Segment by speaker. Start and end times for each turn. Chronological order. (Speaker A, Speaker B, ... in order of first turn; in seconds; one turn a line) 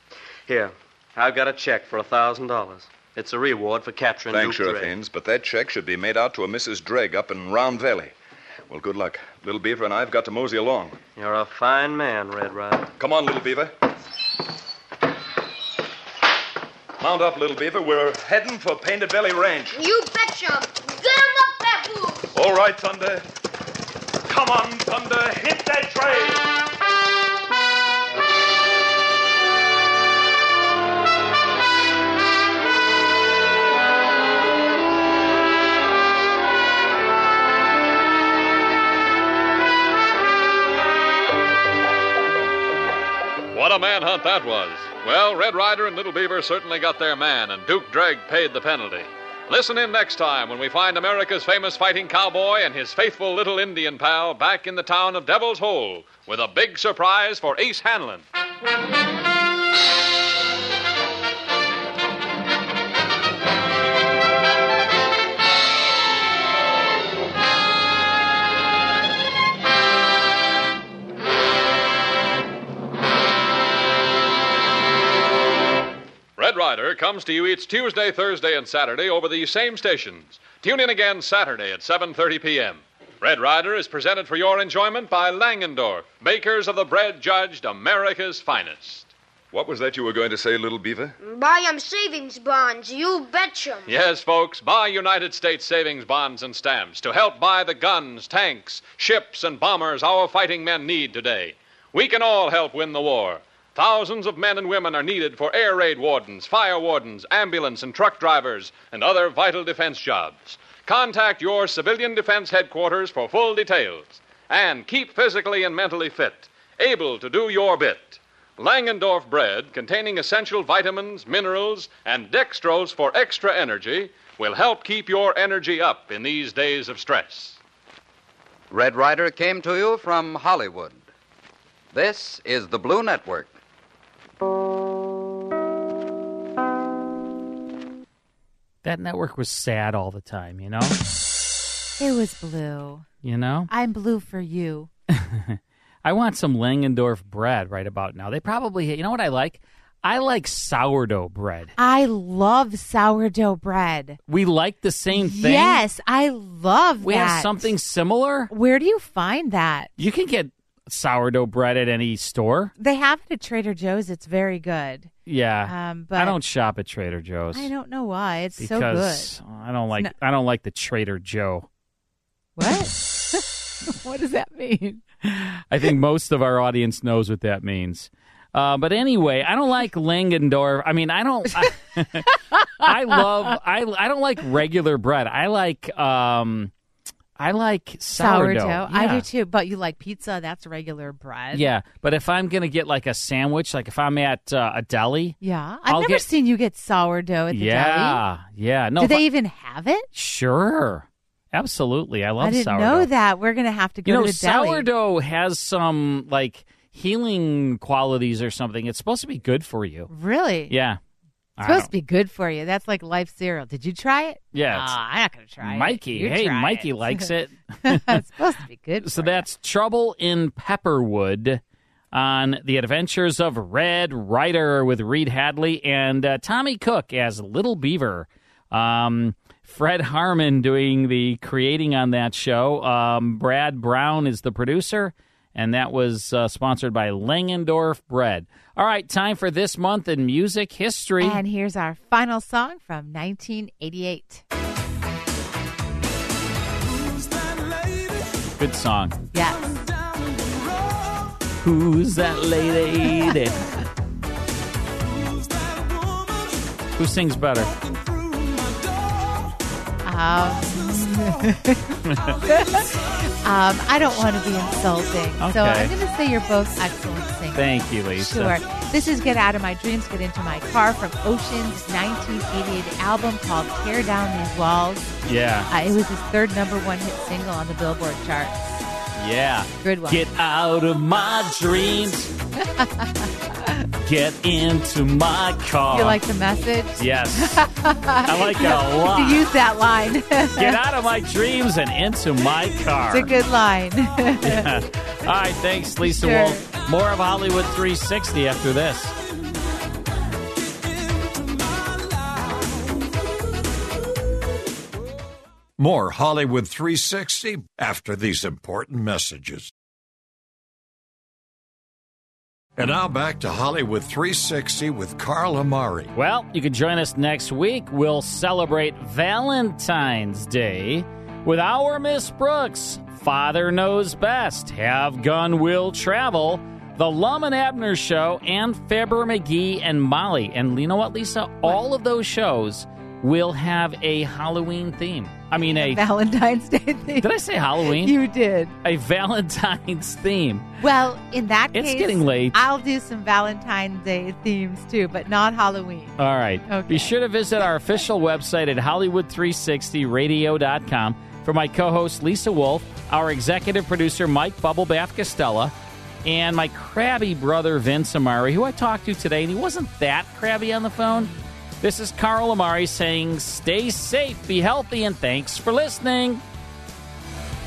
Speaker A: 0.5-4.9
Speaker B: 4.3-8.1
Speaker B: 8.7-11.0
Speaker A: 11.2-12.9
Speaker B: 13.0-13.7
Speaker B: 17.0-19.8
Speaker C: 19.7-22.3
Speaker B: 22.3-23.2
Speaker B: 24.3-26.4
Speaker D: 43.5-58.2
Speaker D: 76.4-89.1
Speaker B: 89.5-91.2
Speaker C: 91.2-93.9
Speaker D: 93.9-127.6
Speaker E: 128.7-131.1
Speaker E: 131.9-133.6
Speaker F: 138.8-141.0
Speaker G: 142.0-143.1
Speaker F: 143.2-143.7
Speaker G: 143.7-144.9
Speaker F: 145.1-151.7
Speaker G: 151.8-154.2
Speaker F: 154.3-155.8
Speaker G: 155.1-157.7
Speaker F: 157.0-158.5
Speaker G: 158.5-159.9
Speaker F: 160.0-162.7
Speaker G: 162.8-165.1
Speaker F: 165.3-167.7
Speaker G: 165.7-166.4
Speaker G: 167.5-169.3
Speaker F: 168.6-171.7
Speaker G: 172.6-175.0
Speaker F: 175.2-182.3
Speaker F: 182.8-186.7
Speaker F: 187.4-189.3
Speaker G: 188.1-191.7
Speaker F: 191.5-196.2
Speaker G: 195.4-198.2
Speaker F: 197.5-199.2
Speaker G: 199.0-200.1
Speaker F: 200.2-203.1
Speaker G: 202.4-204.9
Speaker F: 204.1-210.1
Speaker G: 210.1-210.7
Speaker F: 210.7-211.0
Speaker F: 211.6-211.9
Speaker G: 211.6-217.3
Speaker F: 214.5-215.0
Speaker F: 215.6-218.2
Speaker G: 217.8-219.4
Speaker F: 219.0-221.6
Speaker F: 222.1-241.4
Speaker G: 241.2-244.4
Speaker F: 248.6-249.2
Speaker G: 249.3-249.7
Speaker F: 251.6-253.7
Speaker F: 257.0-257.7
Speaker G: 260.0-262.0
Speaker F: 262.1-262.4
Speaker G: 262.5-275.1
Speaker F: 265.4-265.9
Speaker F: 267.5-268.6
Speaker F: 275.2-275.7
Speaker G: 275.7-278.6
Speaker F: 279.2-282.3
Speaker G: 279.8-280.2
Speaker G: 282.6-283.7
Speaker F: 284.0-286.2
Speaker G: 285.9-290.8
Speaker F: 287.0-287.6
Speaker F: 288.2-289.5
Speaker F: 290.6-293.3
Speaker G: 293.1-294.7
Speaker F: 294.4-299.1
Speaker G: 296.0-296.7
Speaker H: 305.8-309.7
Speaker H: 312.8-316.1
Speaker F: 316.1-336.0
Speaker G: 335.8-337.3
Speaker F: 337.2-338.1
Speaker G: 337.8-338.8
Speaker F: 338.8-340.8
Speaker G: 340.8-346.1
Speaker F: 341.7-342.6
Speaker F: 346.2-355.7
Speaker G: 346.7-347.1
Speaker F: 356.2-366.4